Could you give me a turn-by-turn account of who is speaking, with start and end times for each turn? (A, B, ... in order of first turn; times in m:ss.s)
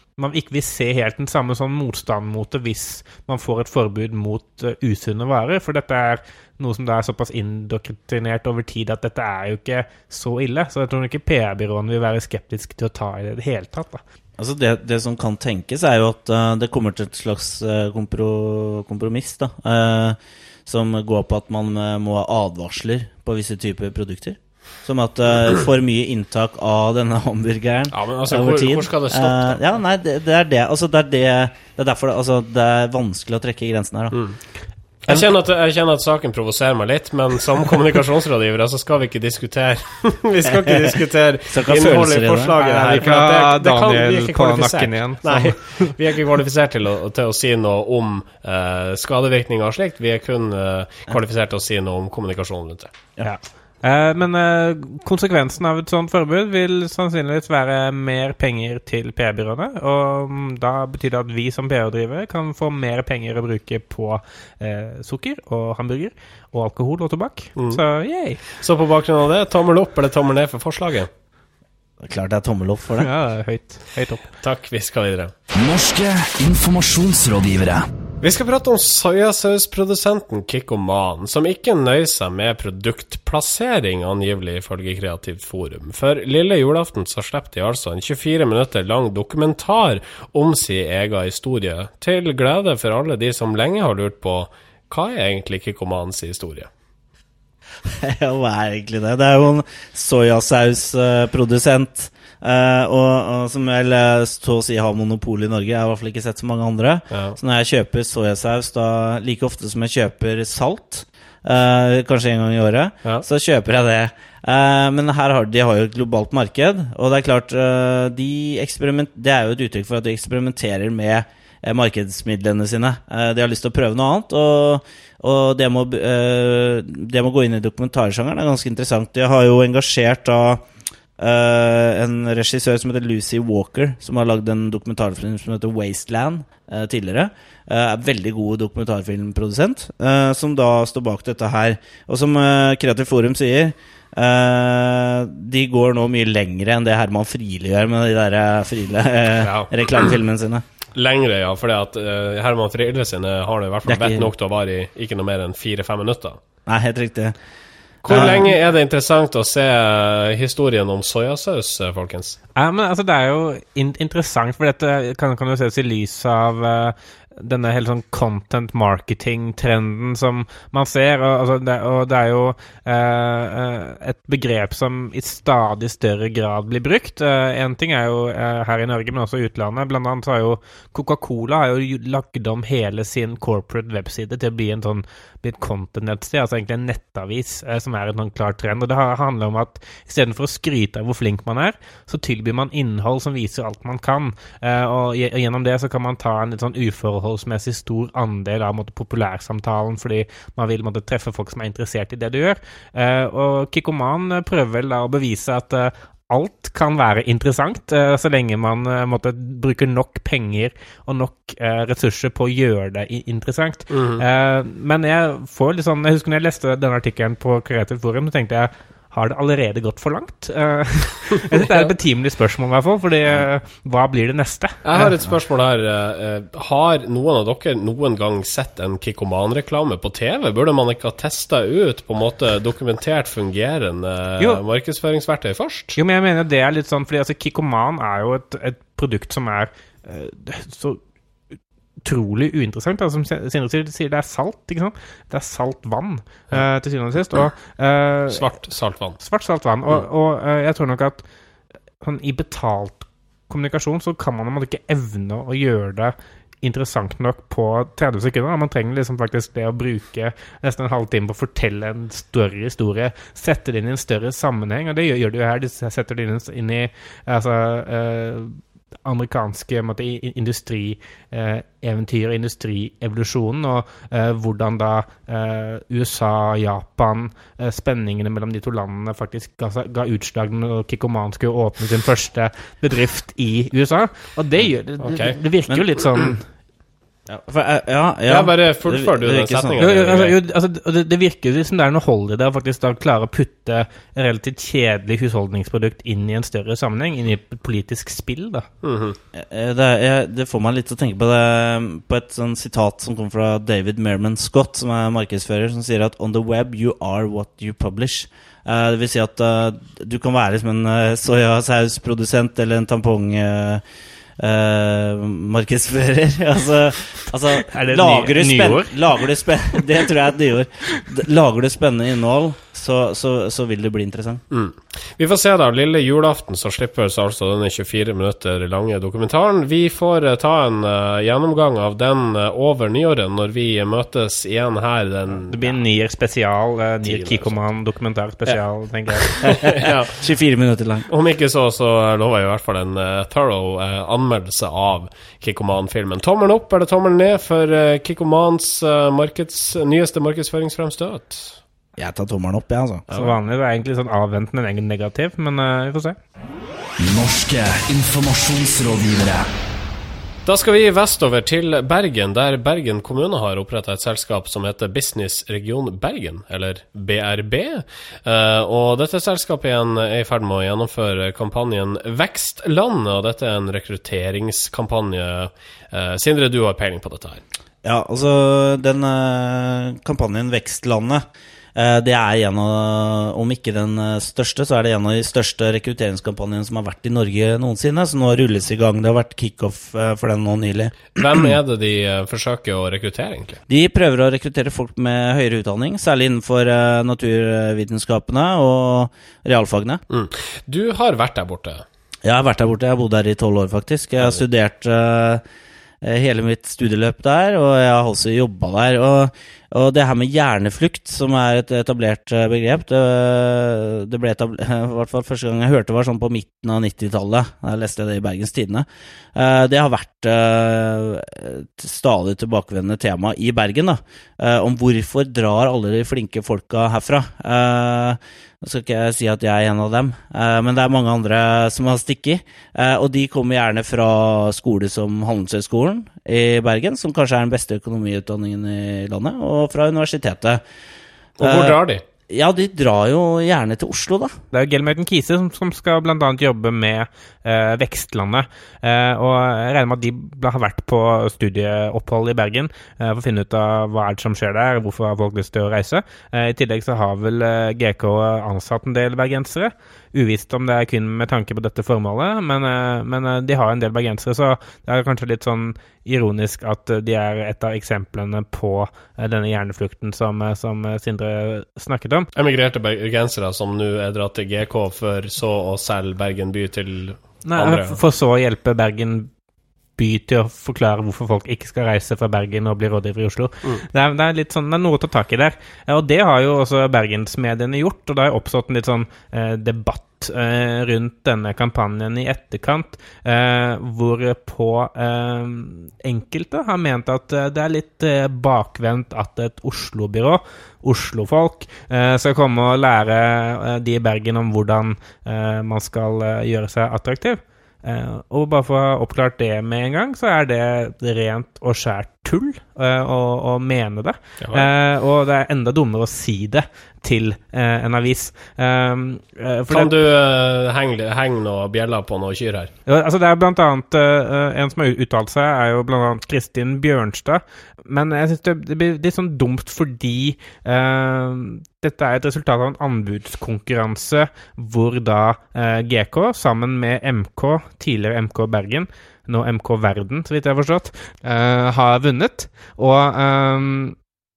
0:00.2-0:14.0 A
0:14.4-0:34.2 B
0:27.9-0:29.6 C
0:34.1-0:34.4 C
0:35.0-0:52.9 C
0:41.5-0:42.6 B
0:42.6-0:45.9 A
0:53.2-1:08.4 A
1:08.5-1:11.1 C
1:12.0-1:13.1 B
1:13.0-1:14.2 A
1:14.4-1:15.3 C
1:15.5-1:17.8 D
1:18.2-1:36.7 C
1:37.8-2:10.7 B
1:47.1-1:47.4 C
2:11.2-2:30.6 B
2:29.4-2:29.7 C
2:31.0-2:36.4 C
2:33.9-2:34.3 B
2:36.7-2:37.4 B
2:38.0-2:42.4 C
2:38.1-2:38.5 B
2:42.6-3:45.1 A
3:33.9-3:34.2 C
3:44.8-3:56.0 C
3:56.0-4:01.0 A
4:02.0-4:08.5 A
4:08.3-4:09.2 C
4:09.2-4:11.2 A
4:12.0-4:46.4 A
4:45.0-4:45.4 C
4:47.3-4:49.8 B
4:48.3-4:50.4 C
4:49.8-4:58.7 A
4:58.8-4:59.2 C
4:59.3-5:13.8 B
5:14.4-5:24.4 B
5:17.6-5:18.9 A
5:24.5-5:35.8 C
5:35.5-5:39.7 A
5:37.0-5:37.5 C
5:39.2-5:40.2 C
5:39.6-5:41.1 B
5:41.1-5:51.6 C
5:52.0-5:53.1 B
5:53.1-5:53.4 C
5:53.1-5:56.2 A
5:57.0-5:59.5 D
6:00.5-6:17.4 C
6:17.8-6:21.2 B
6:21.8-6:31.1 B
6:31.2-6:33.6 C
6:33.7-6:40.0 B
6:40.1-6:41.8 C
6:42.2-6:45.4 B
6:46.0-7:20.6 B
7:21.4-7:22.0 C
7:21.4-7:24.3 B
7:24.5-7:52.3 A
7:52.4-7:58.0 C
7:57.4-7:59.3 A
8:00.0-8:39.9 A
8:34.4-8:34.7 C
8:39.7-8:42.7 C
8:42.9-9:04.0 A